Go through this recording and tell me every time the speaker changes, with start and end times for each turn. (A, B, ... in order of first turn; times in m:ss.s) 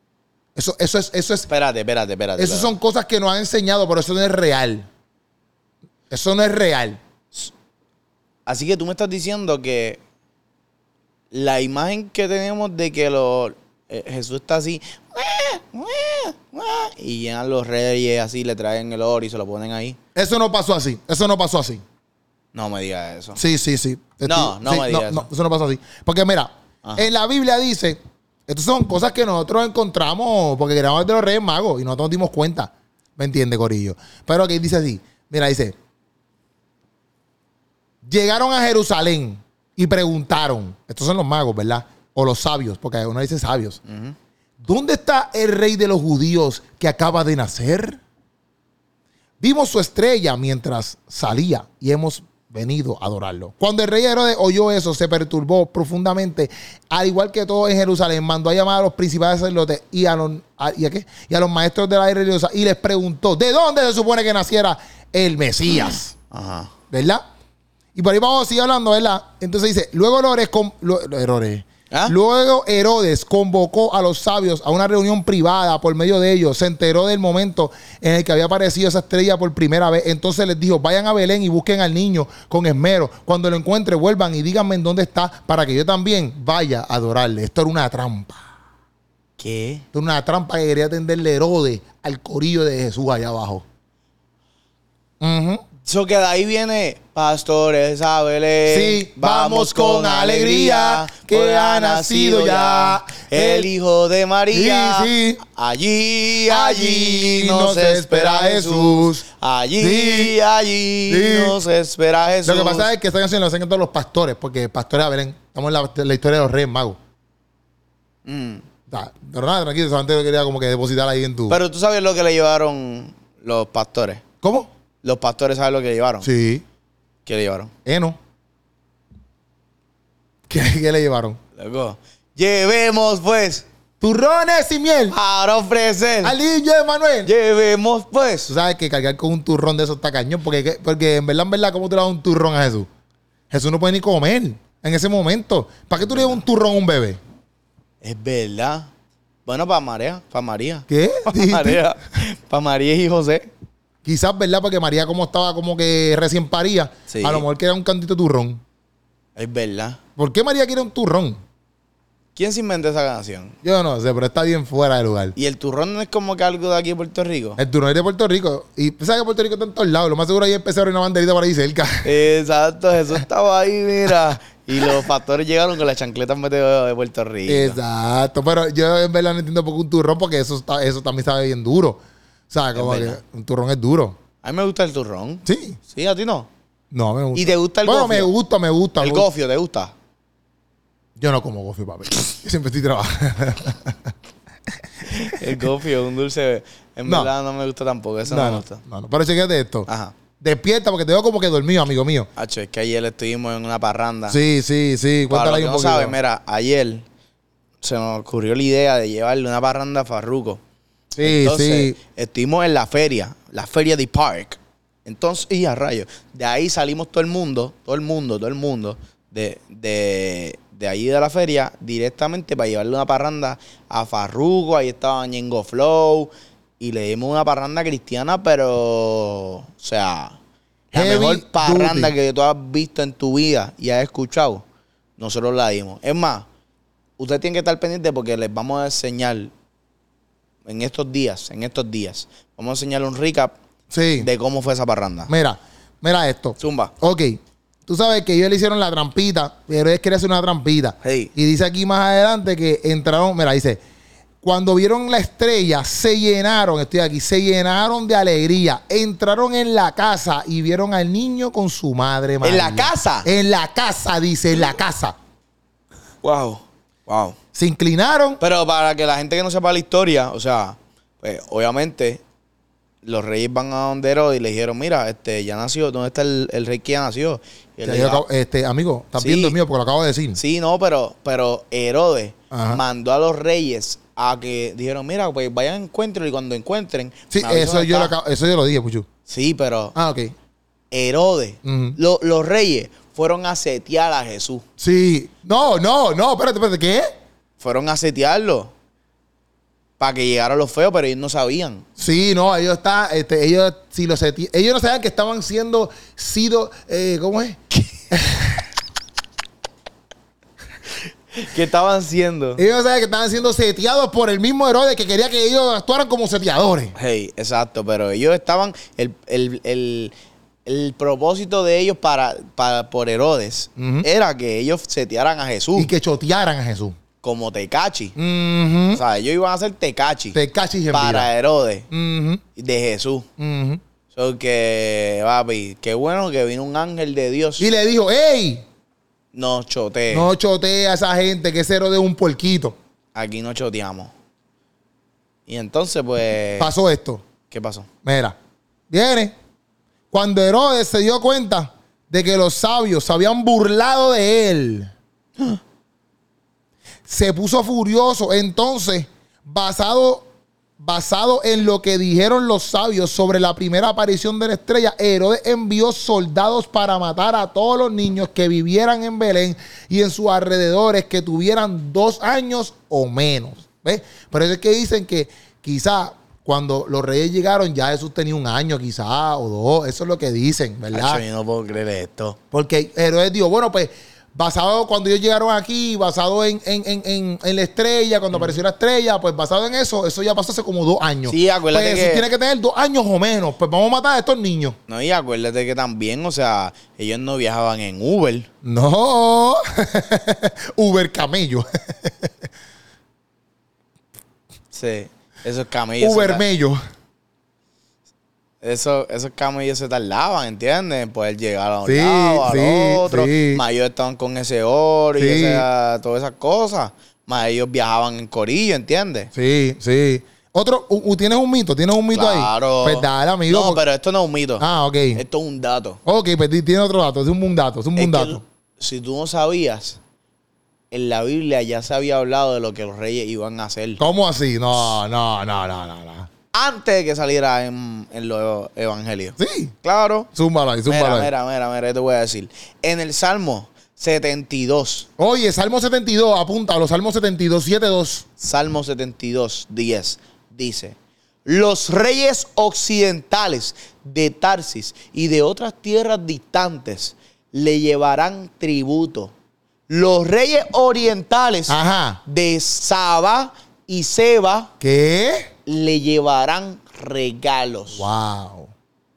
0:00.6-0:01.5 A
0:01.5-0:02.7 B
0:02.4-0:04.9 A
0:06.1-0:07.0 A
0:08.4-0:10.0 B
0:11.3-0:20.0 B
0:20.1-0:21.8 A
0:22.5-0:23.4 B
0:23.4-0:35.7 A
0:24.2-0:25.2 B
0:38.0-0:43.8 A
0:43.8-0:44.1 B
0:44.6-0:48.0 A
0:49.4-1:06.1 A
1:05.7-1:06.7 B
1:06.9-1:07.2 A
1:07.9-1:28.4 A
1:29.4-1:29.8 B
1:29.9-1:33.6 A
1:35.2-1:35.6 A
1:35.8-1:52.9 B
1:38.7-1:43.7 A
1:44.5-1:45.4 A
1:46.4-1:49.2 A
1:49.8-1:50.3 A
1:51.1-1:51.6 A
1:52.4-1:57.0 A
1:58.2-1:58.6 B
1:58.9-2:01.6 A
2:01.5-2:04.2 B
2:04.4-2:04.7 A
2:05.0-2:06.3 B
2:06.2-2:06.6 A
2:07.2-2:07.7 B
2:07.8-2:08.2 A
2:10.5-2:11.4 A
2:11.6-2:13.6 B
2:14.0-2:15.2 A
2:15.1-2:16.4 B
2:16.2-2:17.3 A
2:17.2-2:18.5 B
2:18.5-2:22.9 A
2:23.5-2:27.2 A
2:26.0-2:26.4 B
2:28.0-2:28.9 B
2:29.4-2:33.5 B
2:30.9-2:31.8 A
2:34.0-2:38.6 A
2:37.1-2:37.4 B
2:39.4-2:40.0 B
2:40.2-2:41.4 A
2:42.4-2:43.6 B
2:43.6-2:45.4 A
2:45.4-2:47.6 B
2:47.6-2:52.1 A
2:52.0-2:57.8 B
2:57.5-3:02.0 A
3:02.5-3:04.2 A
3:02.7-3:03.2 B
3:04.4-3:06.5 B
3:05.4-3:05.8 A
3:06.9-3:09.3 A
3:07.3-3:08.3 B
3:09.0-3:09.9 B
3:11.2-3:14.1 A
3:15.1-3:18.8 B
3:17.0-3:17.3 A
3:18.3-3:19.9 A
3:19.9-3:20.1 B
3:20.4-3:22.3 A
3:22.4-3:24.4 B
3:24.3-3:26.2 A
3:25.3-3:27.0 B
3:27.8-3:30.6 B
3:31.2-3:32.0 A
3:31.2-3:50.4 B
3:50.9-3:54.6 B
3:50.9-3:52.1 A
3:55.2-3:56.4 B
3:57.2-3:59.5 B
4:00.6-4:03.5 B
4:03.9-4:04.3 A
4:04.2-4:05.3 B
4:05.3-4:13.8 A
4:06.6-4:06.9 B
4:11.0-4:11.3 B
4:14.4-4:25.2 A
4:22.4-4:23.3 B
4:26.2-4:27.4 B
4:27.5-4:28.4 A
4:28.4-4:32.2 B
4:33.0-4:38.2 B
4:37.8-4:40.4 A
4:39.2-4:39.6 B
4:40.3-4:48.1 B
4:42.5-4:42.8 A
4:47.3-4:49.1 A
4:49.3-4:49.9 B
4:49.9-4:50.3 A
4:50.9-4:54.6 B
4:51.6-4:52.0 A
4:54.8-4:57.1 A
4:57.6-4:58.7 B
5:00.0-5:01.8 B
5:02.0-5:08.6 A
5:11.3-5:12.6 B
5:12.6-5:16.9 A
5:17.0-5:20.1 B
5:20.6-5:25.9 B
5:23.8-5:24.1 A
5:25.8-5:27.0 A
5:27.2-5:28.2 B
5:28.2-5:29.0 A
5:28.9-5:30.4 B
5:30.3-5:31.3 A
5:30.9-5:31.9 B
5:31.9-5:32.4 A
5:32.6-5:33.3 B
5:33.4-5:33.8 A
5:34.1-5:37.7 B
5:37.6-5:38.6 A
5:39.3-5:40.3 B
5:40.1-5:42.8 A
5:43.1-5:44.1 B
5:45.5-5:46.7 B
5:46.6-5:47.2 A
5:47.5-5:47.9 B
5:48.0-5:48.4 A
5:48.9-5:49.3 A
5:50.1-5:54.9 A
5:57.1-6:00.3 A
6:00.8-6:21.2 A
6:20.9-6:22.4 B
6:22.5-6:34.8 A
6:28.3-6:28.6 B
6:31.2-6:32.2 B
6:34.9-6:38.5 B
6:38.6-6:42.3 A
6:44.7-6:46.4 B
6:46.0-6:46.8 A
6:48.6-6:59.3 B
6:51.8-6:53.6 A
6:55.2-6:55.6 A
6:59.3-7:03.8 A
7:02.1-7:06.0 B
7:04.6-7:05.2 A
7:06.0-7:08.4 A
7:08.0-7:10.0 B
7:10.9-7:14.0 B
7:14.0-7:16.3 A
7:16.5-7:20.3 B
7:19.4-7:19.7 A
7:20.3-7:21.3 A
7:20.9-7:25.1 B
7:25.2-7:28.2 A
7:28.4-7:39.3 B
7:39.9-7:44.7 B
7:41.7-7:42.2 A
7:44.8-7:45.5 A
7:45.6-7:48.0 B
7:47.9-7:48.7 A